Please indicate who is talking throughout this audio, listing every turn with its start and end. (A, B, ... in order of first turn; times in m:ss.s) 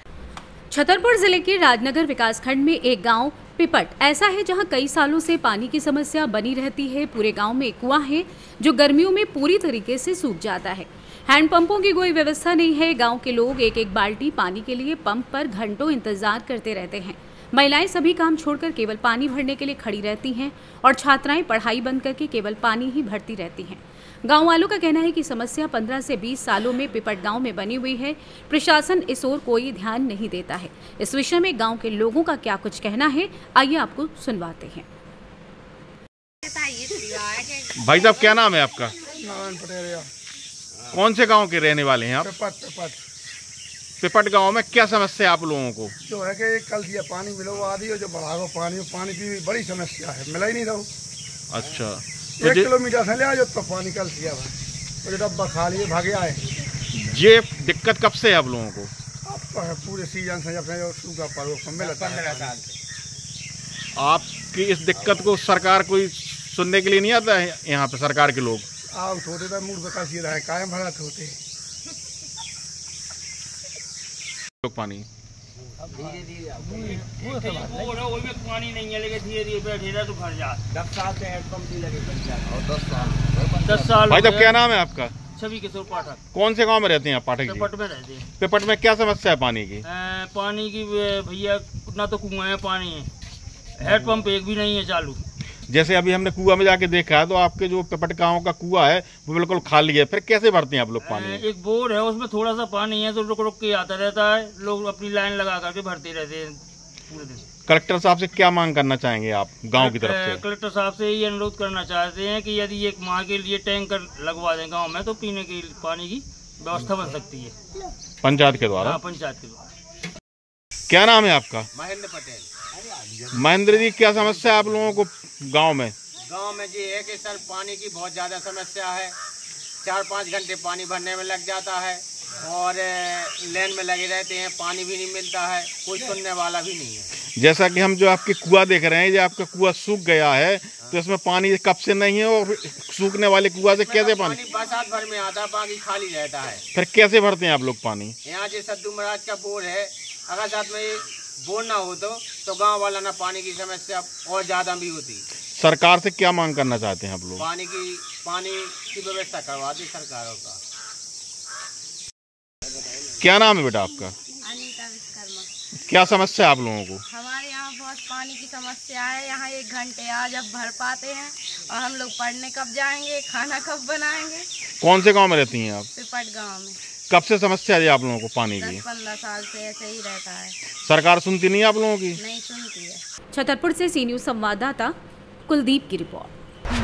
0:00.7-0:34.8 A
0:36.6-0:38.3 B
0:37.7-0:38.9 C
0:39.2-0:40.0 D
0:40.9-0:42.4 C
0:42.2-0:43.0 D
0:44.0-0:45.9 C
0:46.1-0:50.9 D
0:51.5-0:52.8 C
0:52.4-0:54.5 D
0:55.0-0:56.4 D
0:57.0-0:58.9 C
0:59.3-1:02.3 D
1:02.1-1:02.6 E
1:04.0-1:08.6 C
1:09.0-1:11.3 D
1:14.6-1:15.0 C
1:16.9-1:20.6 F
1:23.6-1:24.5 F
1:24.1-1:25.2 C
1:25.4-1:26.2 F
1:26.3-1:27.7 C
1:27.5-1:28.2 F
1:28.4-1:29.8 C
1:29.9-1:33.1 F
1:33.8-1:35.2 F
1:35.7-1:41.4 C
1:41.1-1:46.6 F
1:47.1-1:47.4 F
1:47.7-1:50.4 C
1:49.8-1:57.5 F
1:58.2-1:59.0 C
1:58.8-1:59.6 F
2:00.9-2:01.7 C
2:01.7-2:02.5 E
2:03.3-2:05.9 C
2:06.3-2:09.2 E
2:09.8-2:17.1 E
2:17.4-2:24.4 C
2:23.6-2:26.6 E
2:26.7-2:28.1 C
2:28.2-2:35.2 E
2:35.6-2:37.4 C
2:37.4-2:40.6 E
2:43.2-2:44.1 C
2:44.4-2:45.5 B
2:45.9-2:47.0 C
2:47.1-2:54.4 B
2:54.8-2:55.9 C
2:56.0-2:56.8 B
2:57.1-2:58.8 C
2:58.6-3:00.5 B
3:00.8-3:02.2 C
3:02.2-3:03.0 B
3:03.3-3:04.9 A
3:05.5-3:06.3 A